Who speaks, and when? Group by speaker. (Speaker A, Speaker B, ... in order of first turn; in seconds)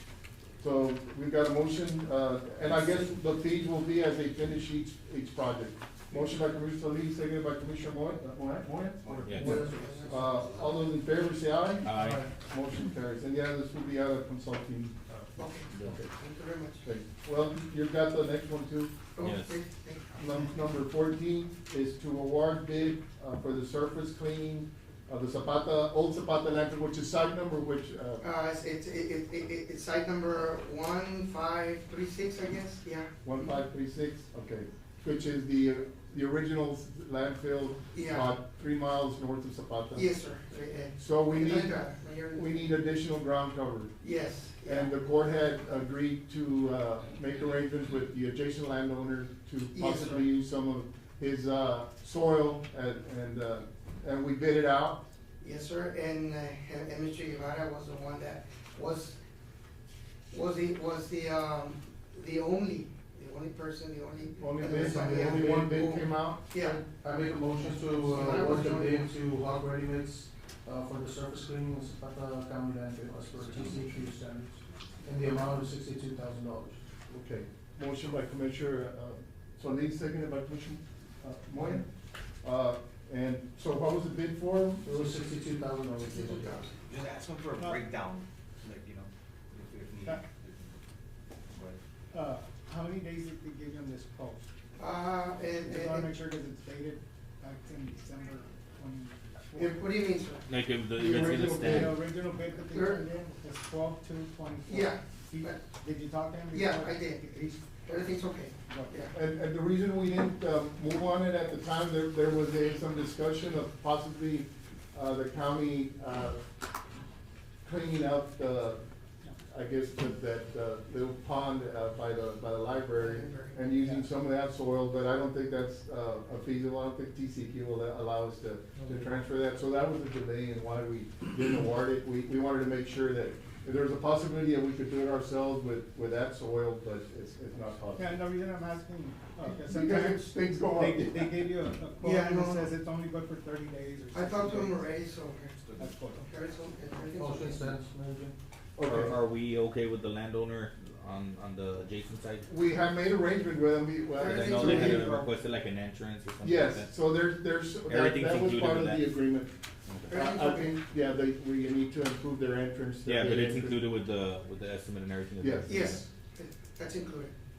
Speaker A: 0.6-16.1, 16.8-18.9, 20.2-28.2, 33.2-40.1, 41.0-44.0, 44.6-55.0, 64.4-66.5, 77.1-81.9, 82.4-84.9, 101.0-102.0, 109.1-116.4, 117.6-118.8, 119.5-138.2, 139.5-141.3, 148.8-149.2, 152.5-155.2, 156.4-163.8, 165.4-166.0
Speaker B: 9.0-10.8, 64.4-64.7, 73.4-74.2, 86.8-90.8, 91.5-91.8, 145.6-146.1
Speaker C: 9.2-9.6, 11.8-12.2, 19.2-19.6, 100.5-101.9, 148.8-152.5, 154.2-156.9, 157.9-159.1, 159.9-160.1, 163.1-166.0
Speaker D: 9.3-10.3, 11.9-12.3, 64.7-65.8, 66.6-76.8, 84.8-86.7, 128.8-129.1, 147.1-148.3
Speaker E: 9.4-10.5, 15.4-16.9, 19.1-20.2, 28.2-33.1, 37.9-38.4, 40.0-42.6, 44.0-44.9, 49.7-50.3, 55.4-59.2, 60.3-66.8, 68.0-69.1, 86.1-86.7, 94.8-96.1, 99.5-100.5, 102.5-103.0, 104.7-105.6, 106.5-109.1, 123.0-123.6, 142.0-142.7, 144.1-145.6, 146.2-147.8, 154.2-155.2, 160.1-160.8, 165.7-167.3
Speaker F: 87.6-87.8, 92.1-94.5, 95.6-99.8, 101.6-107.7, 108.6-109.0, 138.0-144.8, 145.8-146.3